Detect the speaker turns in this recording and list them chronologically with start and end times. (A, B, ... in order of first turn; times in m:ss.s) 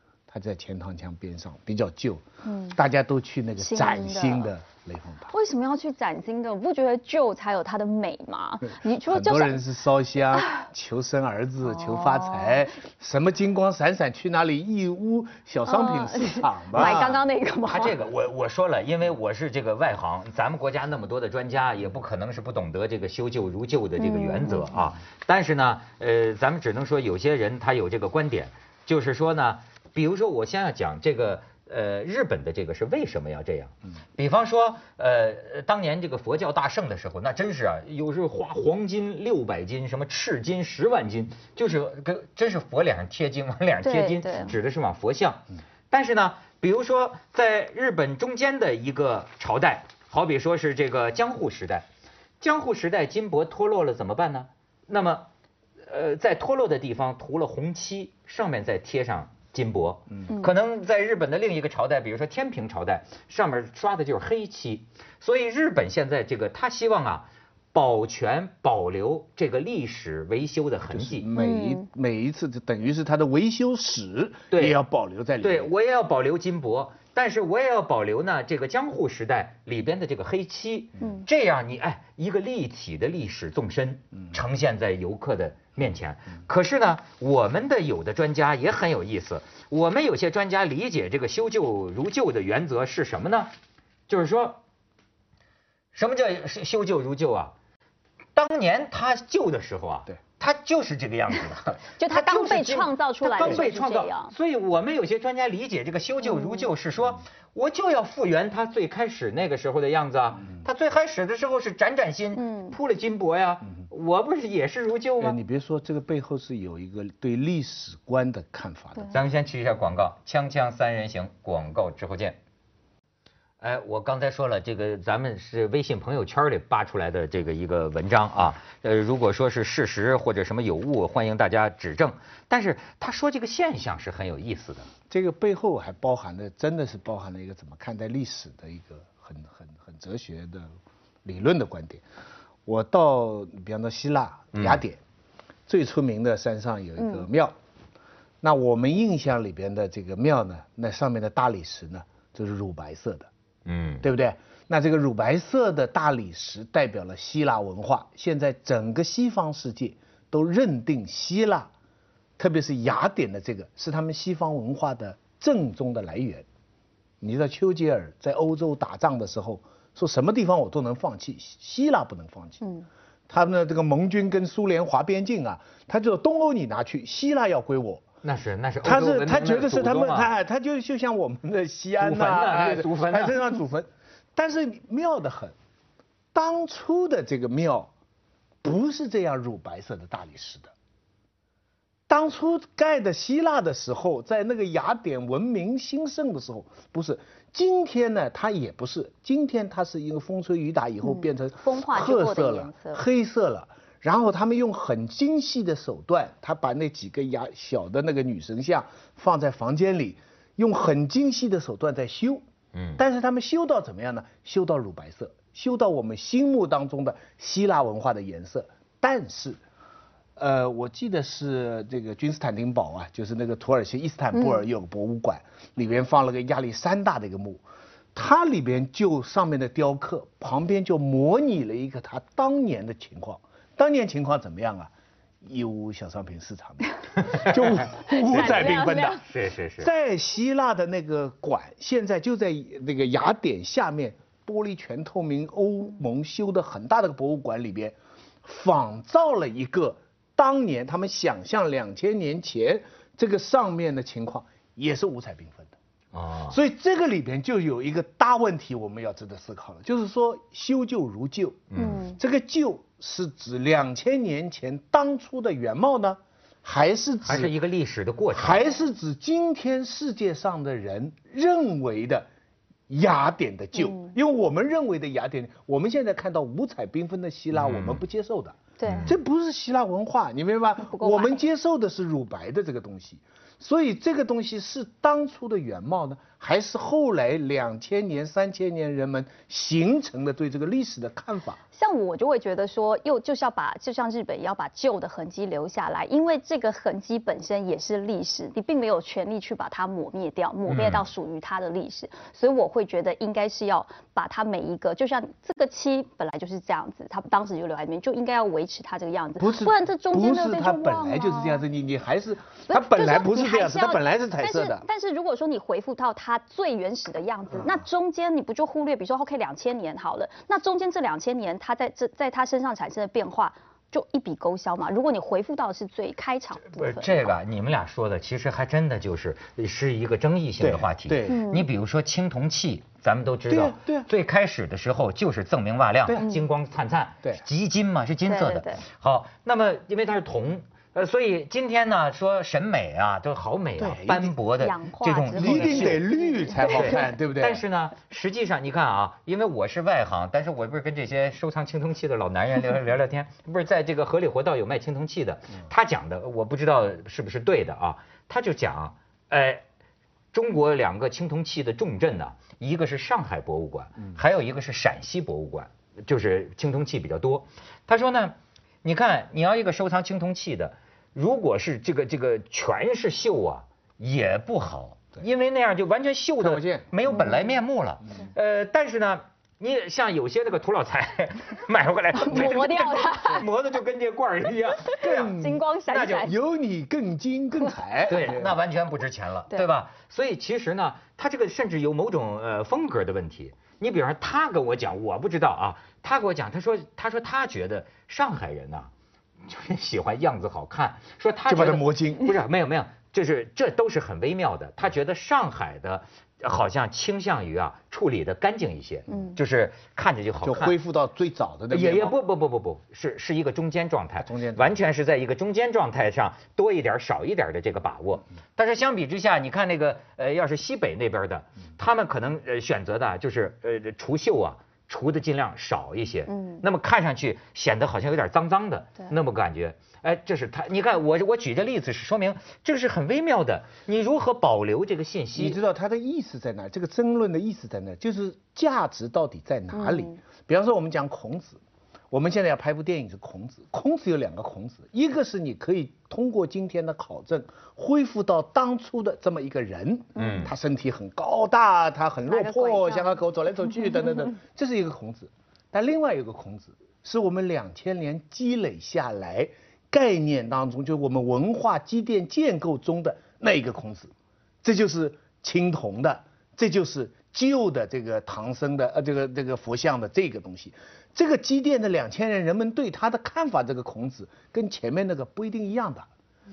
0:00.3-0:05.3 A
0:02.4-0:02.8 B
0:03.6-0:04.5 B
0:05.3-0:09.6 B
0:09.0-0:17.0 A
0:11.7-0:12.6 B
0:15.6-0:18.0 B
0:16.7-0:51.8 C
0:24.0-0:24.8 B
0:43.8-0:44.6 B
0:52.4-0:55.3 C
0:55.8-1:11.3 C
1:10.9-1:15.7 A
1:11.3-1:11.8 B
1:14.5-1:14.8 C
1:15.4-1:33.5 C
1:34.1-1:34.6 C
1:35.9-1:37.5 C
1:38.3-1:55.4 C
1:42.0-1:44.3 B
1:46.3-1:46.7 B
1:52.4-1:52.8 B
1:55.2-1:59.2 A
1:59.1-2:02.4 C
2:03.6-2:14.9 C
2:15.1-2:20.7 A
2:21.2-2:22.0 A
2:22.6-2:25.0 A
2:24.5-2:24.8 C
2:25.7-2:27.5 A
2:27.0-2:27.2 B
2:28.4-2:33.3 A
2:33.6-2:34.0 C
2:34.0-2:41.7 A
2:42.4-2:46.4 A
2:47.2-2:52.6 A
2:52.6-2:52.9 B
2:53.3-2:58.0 A
2:58.2-3:00.3 C
2:58.8-3:05.5 A
3:02.0-3:03.4 C
3:06.3-3:07.9 A
3:08.6-3:10.7 A
3:12.1-3:32.4 A
3:21.0-3:23.0 B
3:32.7-3:33.0 C
3:33.0-3:39.6 A
3:40.4-3:54.9 A
3:55.4-3:59.2 A
3:57.2-3:57.7 C
3:58.0-3:59.2 B
3:58.3-3:59.9 C
3:59.8-4:15.7 A
4:16.1-4:16.6 C
4:16.5-4:27.5 A
4:21.7-4:22.0 C
4:21.8-4:22.2 B
4:27.2-4:28.7 C
4:28.3-4:32.3 A
4:32.9-4:51.6 A
4:33.8-4:34.1 B
4:37.5-4:38.0 C
4:38.8-4:39.1 B
4:38.8-4:39.2 C
4:40.8-4:41.4 B
4:51.7-5:11.6 B
5:00.7-5:01.0 C
5:09.4-5:14.8 A
5:12.7-5:27.2 B
5:26.7-5:46.0 C
5:30.6-5:31.4 A
5:31.3-5:31.7 B
5:33.5-5:34.1 A
5:36.2-5:36.4 B
5:38.3-5:38.8 B
5:43.8-5:44.4 A
5:44.6-5:47.0 B
5:45.4-5:47.6 A
5:46.6-5:59.6 C
6:00.3-6:25.3 C
6:16.4-6:16.9 A
6:22.2-6:23.4 B
6:24.8-6:26.3 B
6:25.0-6:25.6 A
6:25.9-6:26.3 C
6:26.2-6:28.6 A
6:28.1-6:38.9 C
6:39.4-6:50.7 C
6:41.5-6:42.3 A
6:49.1-6:49.4 B
6:50.4-6:52.2 A
6:51.7-7:15.6 C
6:54.2-6:54.8 A
7:06.3-7:06.6 B
7:15.3-7:21.6 A
7:19.7-7:20.2 B
7:22.1-7:44.1 A
7:30.2-7:30.5 C
7:32.3-7:33.2 B
7:44.6-7:56.1 A